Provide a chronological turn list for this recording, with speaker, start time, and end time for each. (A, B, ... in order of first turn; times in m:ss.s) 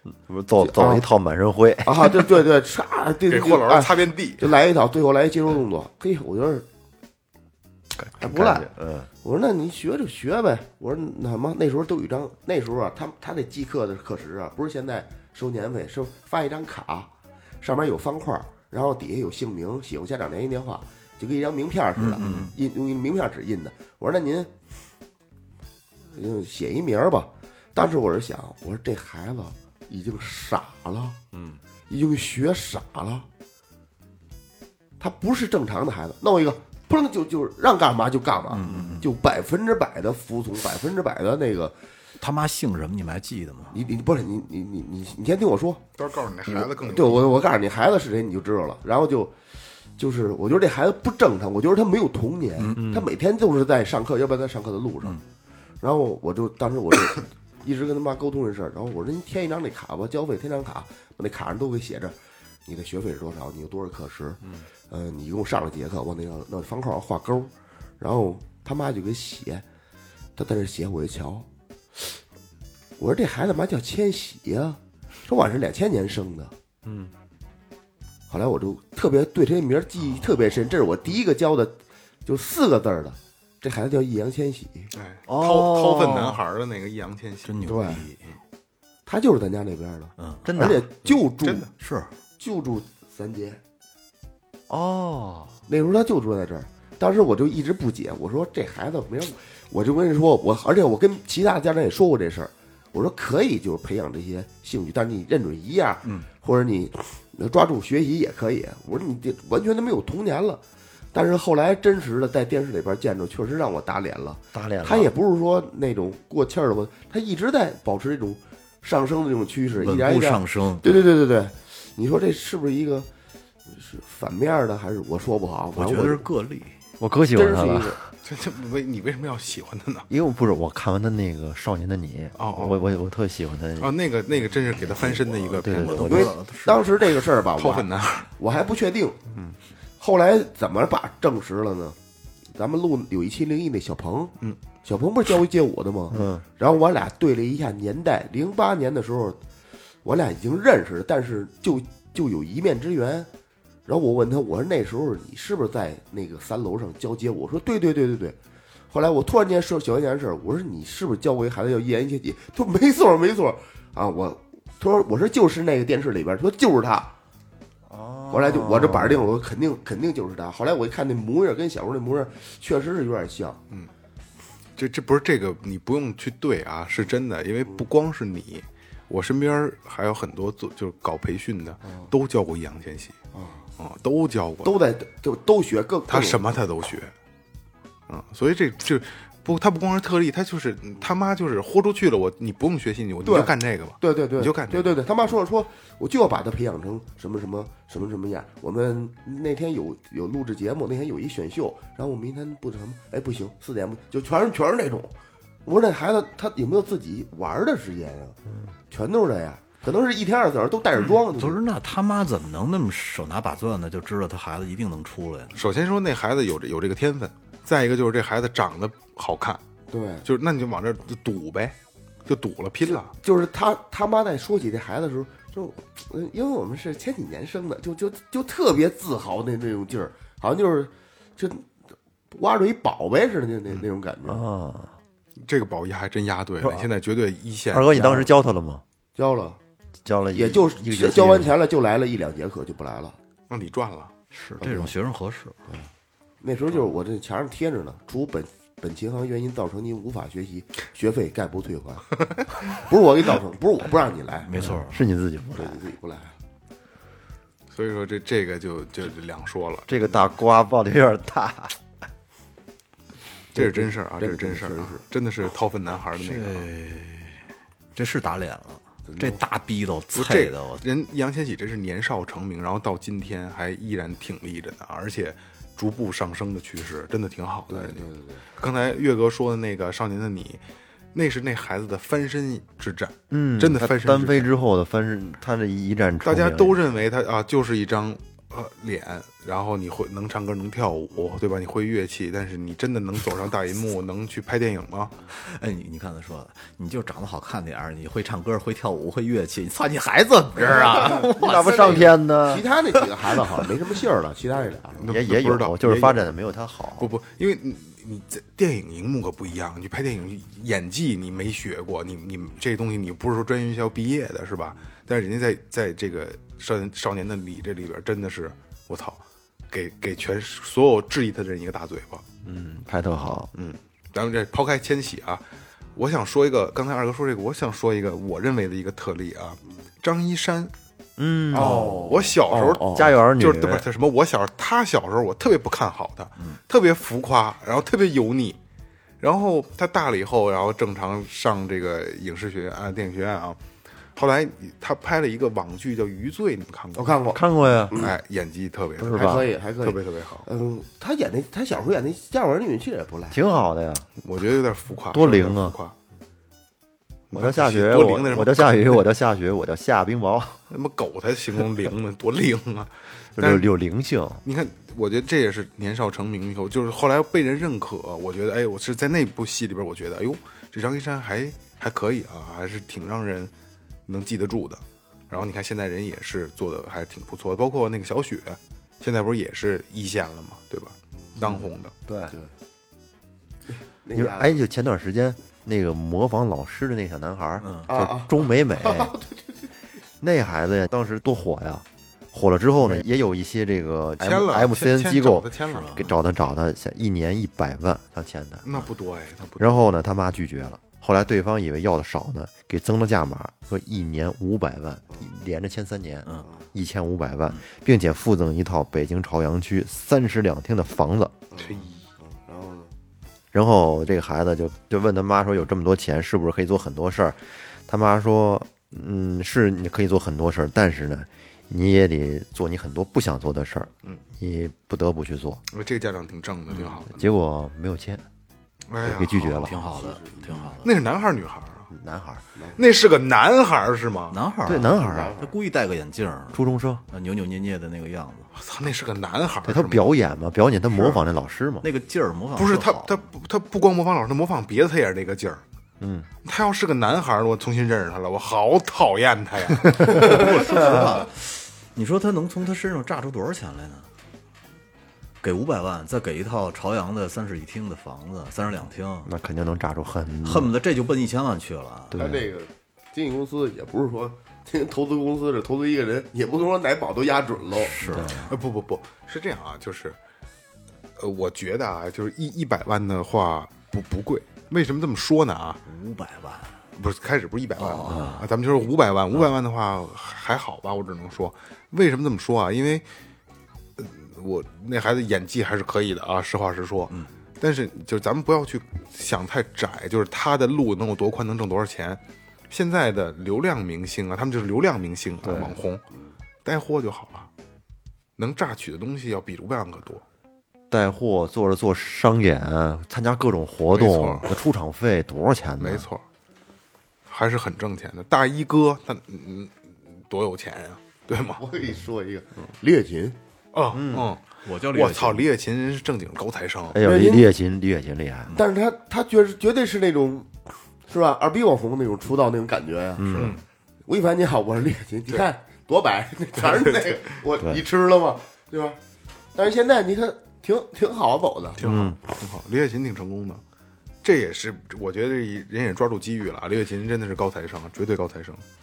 0:00.3-0:02.2 A
0:00.6-0:01.0 B
0:01.8-0:06.7 B
0:03.3-0:04.5 C
0:08.2-0:08.7 B
0:08.2-0:09.1 A
0:09.2-0:24.5 B
0:22.0-0:22.5 D
0:26.1-0:31.2 B
0:31.9-0:33.3 B
0:35.0-0:41.8 B
0:38.5-0:39.1 D
0:42.2-0:43.8 D
0:43.7-0:45.8 B
0:46.0-0:47.3 C
0:46.5-0:49.4 B
0:50.0-0:55.2 B
0:52.6-0:53.0 D
0:55.8-1:09.6 B
1:10.4-1:12.2 B
1:13.0-1:16.5 B
1:18.3-1:24.9 B
1:25.0-1:28.0 C
1:25.3-1:26.4 A
1:27.5-1:28.2 D
1:27.6-1:28.0 B
1:29.1-1:31.7 B
1:30.2-1:30.5 D
1:30.4-1:30.9 A
1:31.0-1:31.7 C
1:31.8-1:32.1 D
1:32.4-1:33.6 B
1:34.7-1:35.5 A
1:35.7-1:50.6 B
1:51.1-2:03.1 B
1:54.5-1:55.1 A
1:59.8-2:01.0 D
2:03.7-2:06.2 B
2:05.8-2:06.8 D
2:07.0-2:08.1 A
2:07.3-2:08.0 B
2:08.2-2:10.1 C
2:10.1-2:14.0 A
2:12.4-2:12.9 C
2:13.8-2:16.1 C
2:15.2-2:16.4 A
2:15.7-2:16.9 D
2:16.0-2:19.3 B
2:17.6-2:18.3 C
2:20.0-2:22.0 B
2:22.5-2:29.4 B
2:26.1-2:26.4 A
2:30.0-2:33.3 B
2:33.9-2:38.4 B
2:38.9-2:47.1 B
2:47.9-2:49.3 A
2:48.3-2:53.6 B
2:54.8-3:03.2 C
3:03.3-3:03.7 B
3:03.8-3:04.8 C
3:04.6-3:06.4 B
3:06.1-3:07.1 C
3:08.1-3:15.0 C
3:13.2-3:28.4 B
3:28.9-3:31.6 B
3:31.0-3:35.6 D
3:35.6-3:39.6 C
3:39.9-3:40.3 B
3:40.2-3:43.1 C
3:42.9-3:51.7 B
3:52.3-3:54.4 B
3:54.2-3:55.0 A
3:55.4-3:58.0 C
3:57.7-3:58.8 A
3:57.9-3:58.3 B
3:59.2-3:59.6 B
4:00.0-4:01.5 A
4:00.3-4:03.2 B
4:03.5-4:04.1 C
4:04.3-4:05.6 D
4:04.6-4:04.9 B
4:06.4-4:14.5 B
4:14.5-4:15.0 D
4:14.6-4:15.8 A
4:15.6-4:16.3 B
4:17.7-4:20.3 C
4:19.9-4:21.8 A
4:23.6-4:25.0 B
4:23.6-4:26.7 C
4:26.2-4:27.4 D
4:28.0-4:30.8 D
4:29.1-4:29.4 B
4:30.2-4:40.6 C
4:37.7-4:38.5 B
4:41.1-4:44.5 C
4:43.3-4:46.8 A
4:46.2-4:55.2 C
4:55.3-5:02.1 D
5:00.6-5:01.1 C
5:00.7-5:05.1 B
5:01.1-5:02.7 A
5:05.0-5:06.3 C
5:05.1-5:07.1 A
5:07.0-5:22.2 C
5:22.4-5:23.5 A
5:23.5-5:25.4 C
5:26.0-5:30.7 C
5:31.2-5:32.4 A
5:31.5-5:38.6 C
5:31.5-5:33.1 B
5:32.9-5:33.9 A
5:39.2-5:43.6 C
5:44.2-5:47.2 C
5:47.0-5:48.1 B
5:47.3-5:48.1 A
5:47.9-5:50.5 C
5:49.0-5:49.5 A
5:49.1-5:53.4 B
5:53.3-5:54.1 A
5:54.2-5:55.9 C
5:55.1-5:55.8 A
5:57.3-5:59.0 C
5:57.3-6:00.6 A
6:00.7-6:03.7 C
6:03.4-6:04.4 A
6:04.4-6:13.5 C
6:14.1-6:21.9 C
6:22.1-6:22.4 A
6:24.0-6:24.6 B
6:24.2-6:29.2 A
6:27.6-6:27.9 D
6:27.9-6:29.5 B
6:30.2-6:38.7 A
6:34.2-6:36.1 C
6:35.7-6:36.1 D
6:38.6-6:39.9 C
6:39.6-6:51.3 A
6:51.5-6:52.9 B
6:51.6-6:52.0 C
6:53.5-7:05.6 A
7:05.7-7:07.3 C
7:07.1-7:08.2 A
7:08.9-7:09.7 C
7:09.0-7:09.8 A
7:09.4-7:10.9 D
7:09.8-7:10.7 B
7:10.8-7:11.9 C
7:11.9-7:12.4 A
7:12.8-7:14.4 C
7:14.3-7:18.5 D
7:14.6-7:15.4 A
7:14.7-7:15.5 B
7:16.5-7:17.0 A
7:18.6-7:20.2 C
7:19.7-7:21.9 A
7:21.0-7:21.2 C
7:21.8-7:23.2 D
7:22.6-7:25.6 C
7:26.0-7:26.3 A
7:26.4-7:30.5 C
7:30.0-7:34.1 D
7:35.4-7:39.3 D
7:39.3-7:40.7 A
7:40.4-7:42.2 D
7:42.1-7:42.5 A
7:42.2-7:48.0 B
7:47.8-7:48.6 D
7:48.1-7:48.4 A
7:48.4-7:50.2 C
7:51.2-7:55.8 C
7:55.9-7:56.8 D
7:57.0-8:03.0 C
7:57.8-7:58.5 D
8:04.0-8:16.0 C
8:15.4-8:15.8 A
8:16.6-8:17.5 C
8:18.4-8:20.2 C
8:20.9-8:26.1 A
8:23.9-8:24.5 C
8:25.8-8:26.2 C
8:27.3-8:31.6 C
8:31.6-8:33.4 B
8:33.7-8:37.0 C
8:33.9-8:34.3 A
8:34.6-8:35.5 D
8:36.9-8:38.6 A
8:37.0-8:37.5 B
8:38.5-8:40.5 B
8:41.1-8:43.3 B
8:43.2-8:43.6 A
8:43.3-8:43.6 D
8:43.4-8:43.6 C
8:44.1-8:49.0 B
8:49.6-8:51.8 B
8:51.8-8:53.6 C
8:51.8-8:52.2 A
8:54.2-8:58.6 C